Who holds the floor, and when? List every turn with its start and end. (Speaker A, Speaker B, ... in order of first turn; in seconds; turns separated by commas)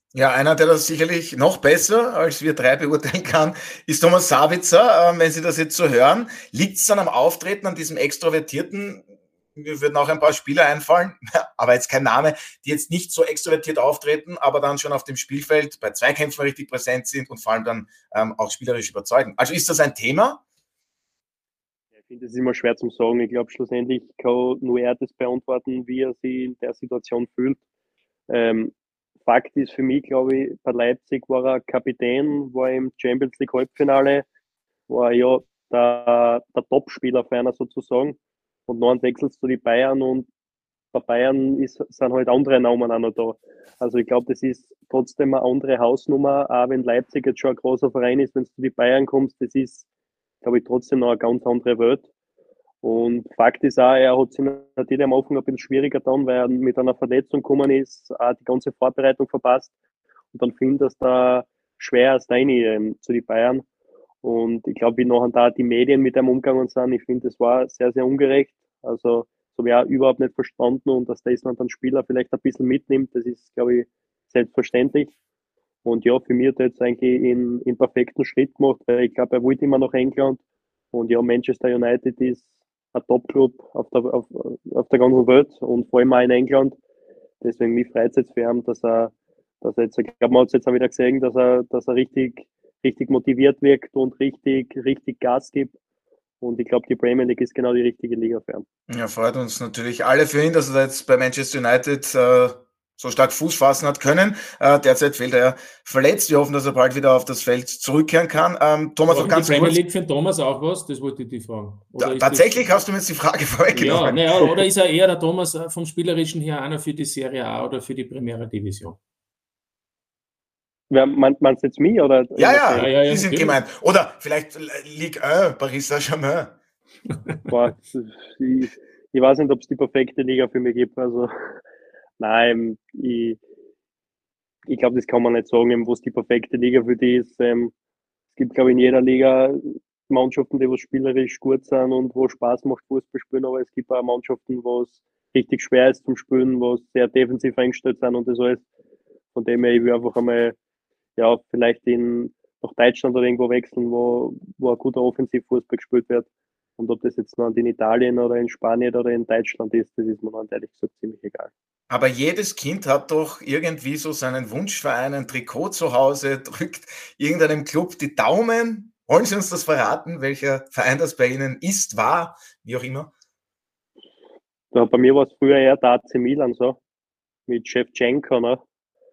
Speaker A: 0.1-20.4, Speaker B: 22.0-27.6, Speaker B: 28.3-28.7, Speaker B: 29.2-34.2, Speaker B: 34.9-40.3, Speaker B: 40.9-49.8, Speaker B: 50.4-52.1, Speaker B: 52.8-59.7, Speaker B: 60.3-63.6, Speaker B: 64.2-75.1, Speaker B: 75.8-80.4, Speaker B: 80.9-86.8, Speaker B: 87.4-95.7, Speaker B: 96.4-98.7, Speaker A: 98.9-109.8, Speaker C: 109.1-112.7, Speaker A: 112.0-114.5, Speaker C: 113.7-119.0, Speaker B: 120.9-122.9, Speaker A: 122.4-126.5, Speaker C: 122.8-123.6, Speaker B: 127.5-131.3, Speaker B: 132.2-133.4, Speaker B: 134.7-137.7, Speaker B: 138.3-148.6, Speaker B: 149.3-150.6, Speaker B: 151.2-161.5, Speaker A: 161.9-173.1, Speaker B: 174.7-176.8, Speaker B: 177.5-178.6